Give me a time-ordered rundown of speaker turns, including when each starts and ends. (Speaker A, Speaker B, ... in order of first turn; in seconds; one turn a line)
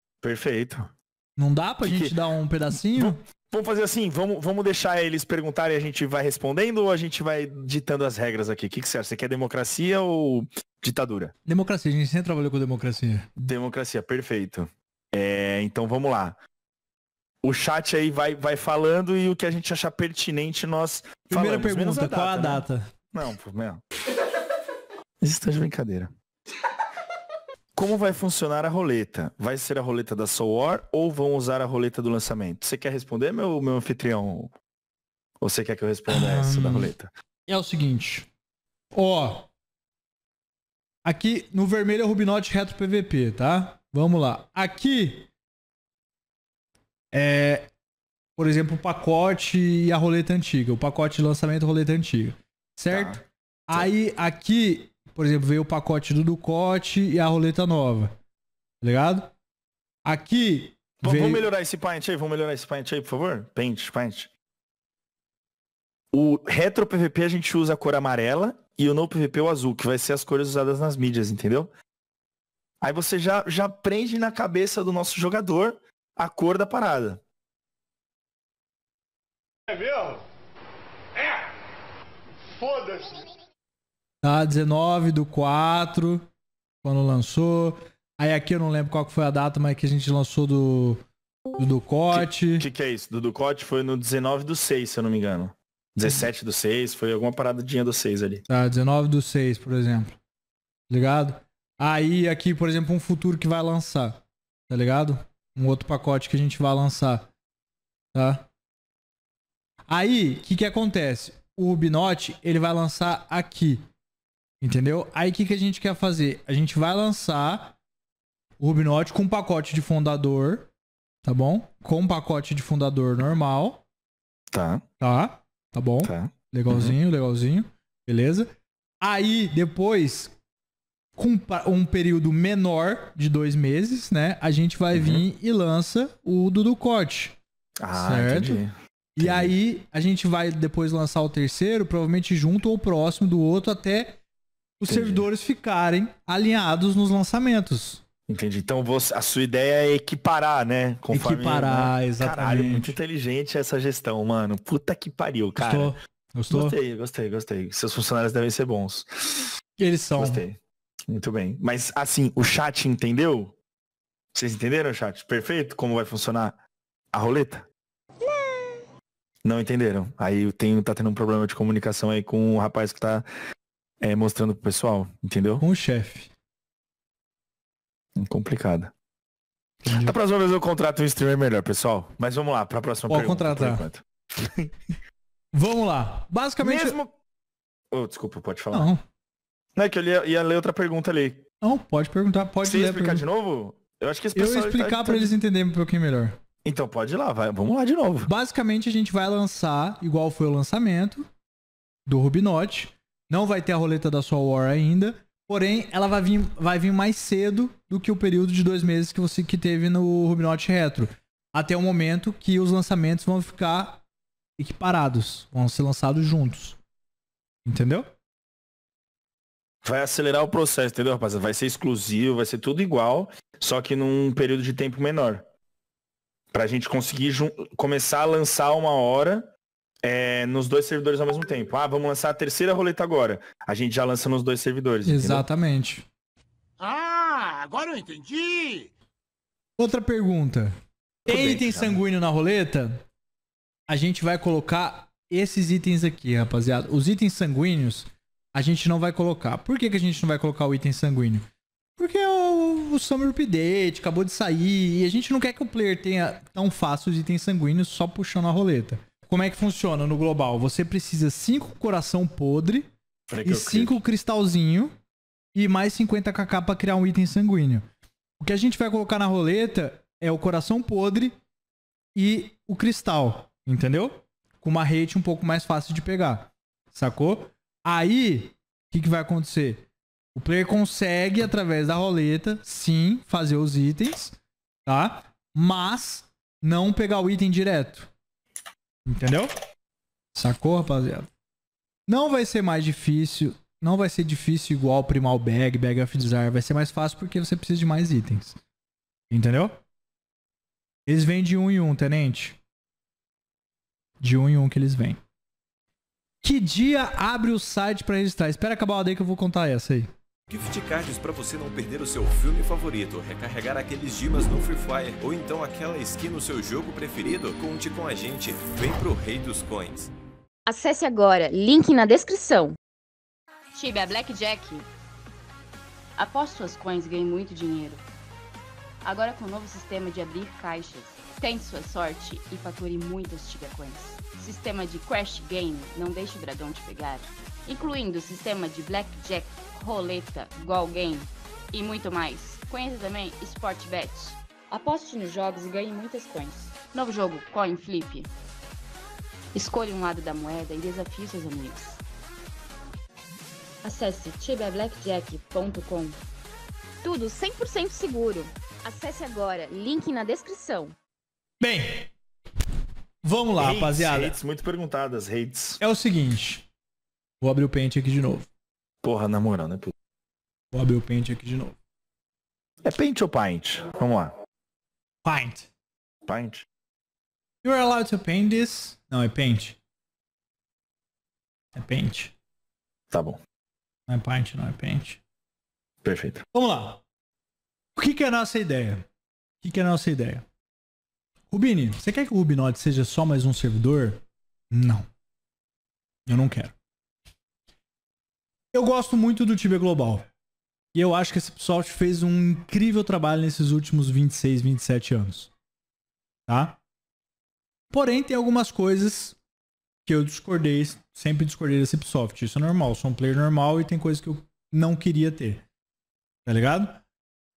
Speaker A: 0.2-0.9
Speaker B: 1.4-3.2
Speaker A: 1.8-2.2
Speaker A: 2.9-11.3
Speaker B: 11.4-13.3
Speaker A: 13.4-16.4
Speaker A: 17.4-23.8
Speaker B: 21.3-22.9
Speaker A: 25.2-26.1
Speaker A: 27.7-34.5
Speaker A: 35.4-37.1
Speaker B: 36.1-36.9
Speaker B: 37.5-38.3
Speaker B: 38.9-39.5
Speaker B: 41.0-45.3
Speaker B: 47.1-47.7
Speaker B: 48.4-58.1
Speaker A: 52.9-53.9
Speaker B: 58.8-59.3
Speaker B: 60.0-61.5
Speaker A: 61.0-64.3
Speaker A: 66.1-71.7
Speaker A: 72.8-77.2
Speaker B: 84.2-86.3
Speaker B: 86.8-91.0
Speaker B: 91.6-92.7
Speaker A: 92.1-98.4
Speaker B: 98.5-100.2
Speaker B: 100.9-107.3
Speaker B: 108.1-108.5
Speaker B: 109.9-113.8
Speaker B: 114.6-117.8
Speaker B: 118.6-120.7
Speaker B: 121.2-123.8
Speaker A: 124.5-124.8
Speaker B: 125.0-128.5
Speaker A: 126.0-126.9
Speaker B: 129.0-130.3
Speaker B: 131.2-137.4
Speaker A: 134.9-135.2
Speaker A: 137.8-139.5
Speaker B: 137.9-138.6
Speaker B: 139.2-144.2
Speaker B: 144.8-148.0
Speaker A: 144.9-145.2
Speaker A: 148.3-155.9
Speaker B: 151.1-152.9
Speaker B: 155.6-156.8
Speaker A: 156.5-159.5
Speaker B: 159.8-160.4
Speaker A: 160.2-163.5
Speaker A: 164.3-166.6
Speaker A: 167.1-167.7
Speaker A: 169.4-173.3
Speaker A: 174.0-175.6
Speaker B: 175.6-176.3
Speaker A: 178.2-178.9
Speaker B: 179.8-180.1
Speaker A: 179.9-184.7
Speaker B: 183.1-183.8
Speaker B: 185.5-187.0
Speaker A: 186.6-187.1
Speaker A: 187.9-188.9
Speaker B: 188.7-189.0
Speaker A: 189.7-191.4
Speaker B: 191.6-193.2
Speaker A: 192.6-195.3
Speaker B: 194.3-196.4
Speaker A: 196.6-198.3
Speaker B: 198.2-201.3
Speaker B: 202.1-214.0
Speaker B: 214.6-216.8
Speaker B: 217.6-218.1
Speaker A: 219.8-225.4
Speaker A: 226.5-229.5
Speaker A: 230.0-235.4
Speaker B: 235.0-236.1
Speaker C: 236.8-238.9
Speaker B: 239.8-240.7
Speaker A: 241.3-242.0
Speaker B: 241.3-243.0
Speaker B: 243.9-251.4
Speaker B: 252.0-262.9
Speaker A: 263.3-264.0
Speaker B: 263.4-264.9
Speaker B: 265.5-267.8
Speaker B: 268.4-271.3
Speaker B: 272.1-288.1
Speaker B: 289.1-289.5
Speaker B: 290.3-291.3
Speaker B: 292.1-298.6
Speaker B: 299.3-299.8
Speaker B: 301.1-302.6
Speaker B: 304.2-305.2
Speaker B: 306.4-310.1
Speaker D: 310.5-320.1
Speaker E: 320.6-322.8
Speaker E: 323.7-324.9
Speaker E: 326.2-328.0
Speaker E: 329.0-348.3
Speaker E: 349.5-352.0
Speaker E: 353.8-356.2
Speaker E: 357.0-360.9
Speaker B: 361.6-362.1
Speaker B: 363.2-364.4
Speaker A: 363.6-365.8
Speaker B: 365.8-366.7
Speaker B: 367.4-368.5
Speaker A: 369.0-369.9
Speaker B: 370.7-371.8
Speaker A: 372.8-374.3
Speaker B: 375.2-375.7
Speaker A: 376.2-376.6
Speaker B: 377.6-379.8
Speaker B: 381.7-382.3
Speaker A: 383.1-383.4
Speaker B: 384.1-385.2
Speaker A: 386.0-386.4
Speaker B: 386.5-387.0
Speaker B: 387.9-389.1
Speaker B: 389.6-390.4
Speaker B: 391.5-395.1
Speaker B: 396.3-396.7
Speaker B: 398.7-400.2
Speaker B: 400.9-405.5
Speaker B: 406.5-406.8
Speaker B: 407.9-409.4
Speaker B: 410.1-415.6
Speaker B: 416.4-417.0